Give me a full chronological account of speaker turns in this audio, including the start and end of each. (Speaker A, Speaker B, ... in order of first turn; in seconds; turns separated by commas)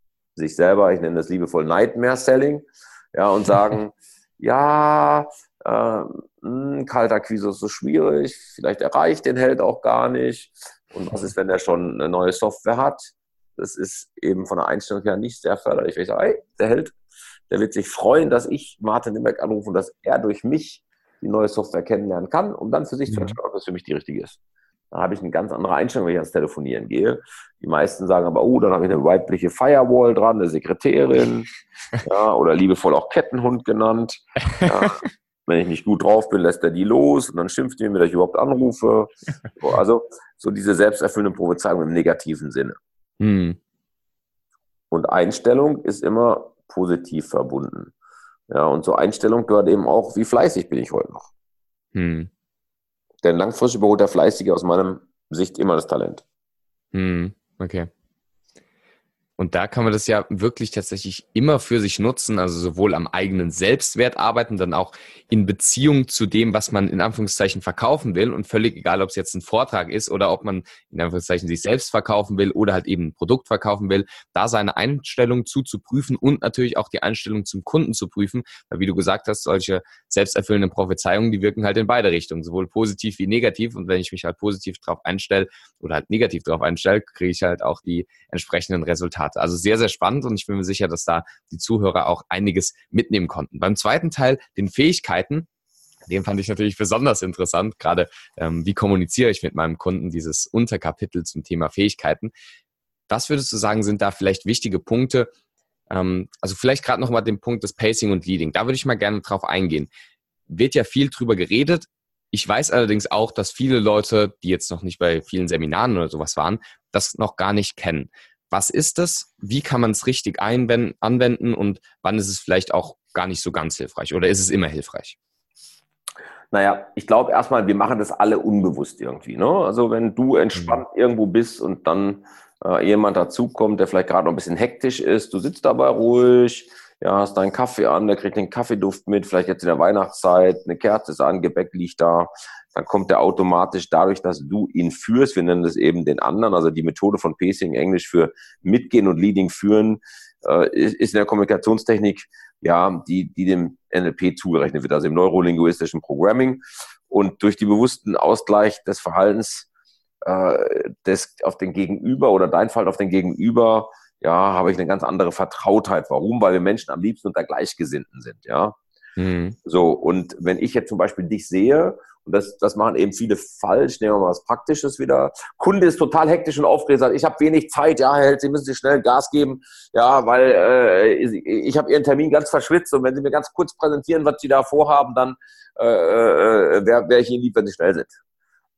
Speaker A: 0.3-16.9, Speaker A: 17.5-24.4, Speaker B: 23.1-23.4, Speaker A: 24.9-31.5, Speaker A: 32.0-42.8, Speaker B: 34.5-34.9, Speaker B: 43.2-43.6, Speaker A: 44.9-47.9, Speaker A: 48.5-51.3, Speaker B: 51.9-52.3, Speaker A: 53.2-56.2, Speaker B: 56.9-57.9, Speaker B: 59.4-95.5, Speaker B: 96.1-102.3, Speaker B: 103.1-105.3, Speaker B: 105.9-109.9, Speaker B: 110.5-125.2, Speaker A: 126.5-159.7, Speaker B: 130.5-130.8, Speaker A: 160.2-168.8, Speaker B: 169.2-169.6, Speaker A: 169.6-188.2